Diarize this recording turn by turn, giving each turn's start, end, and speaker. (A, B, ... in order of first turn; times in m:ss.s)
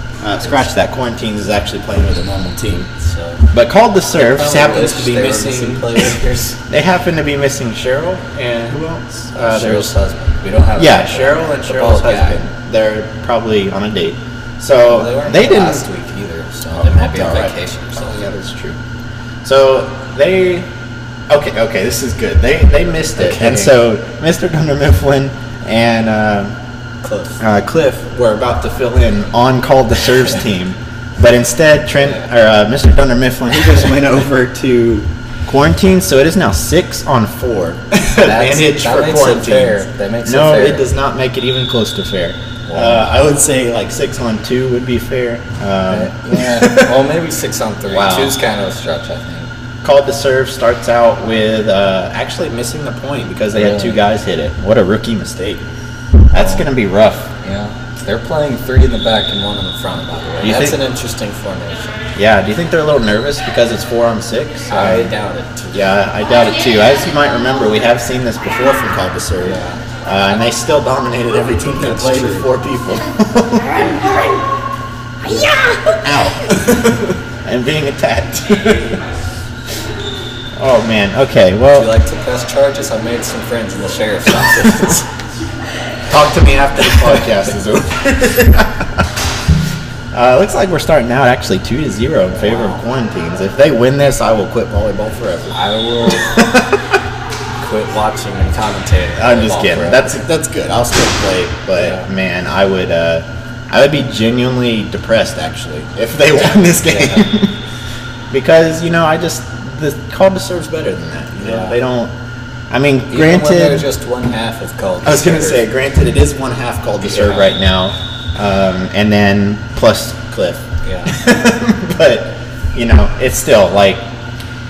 0:00.2-0:02.9 A
0:03.0-0:03.5 B
0:03.5-0:09.9 A
0:04.2-0:06.6 B
0:09.4-0:12.4 B
0:10.8-0:15.9 A
0:14.8-0:18.2 B
0:16.7-0:18.8 A
0:19.4-0:20.7 A
0:21.3-0:26.6 A
0:23.2-0:23.8 B
0:27.0-0:27.4 B
0:27.4-0:46.9 A
0:38.2-0:40.9 B
0:42.7-0:43.1 B
0:45.9-0:49.5 B
0:47.9-0:48.4 A
0:49.8-0:55.7 A
0:53.5-0:54.0 B
0:56.3-0:57.3 A
0:56.3-0:56.7 B
0:57.4-1:02.0 B
1:00.4-1:00.8 A
1:02.2-1:05.2 A
1:04.7-1:05.9 B
1:05.7-1:14.1 A
1:09.4-1:09.8 B
1:11.7-1:12.5 B
1:13.8-1:14.2 B
1:15.2-1:19.0 A
1:20.6-1:21.9 A
1:21.7-1:25.1 B
1:26.1-1:29.0 A
1:30.1-1:37.0 A
1:32.4-1:32.8 B
1:35.5-1:36.4 B
1:37.6-1:40.2 B
1:39.2-1:47.6 A
1:41.8-1:42.1 B
1:46.8-1:47.3 B
1:48.3-1:52.1 A
1:51.4-1:51.8 B
1:52.7-1:53.9 A
1:53.1-1:55.6 B
1:55.0-2:04.0 A
1:57.0-1:57.5 B
2:00.8-2:01.2 B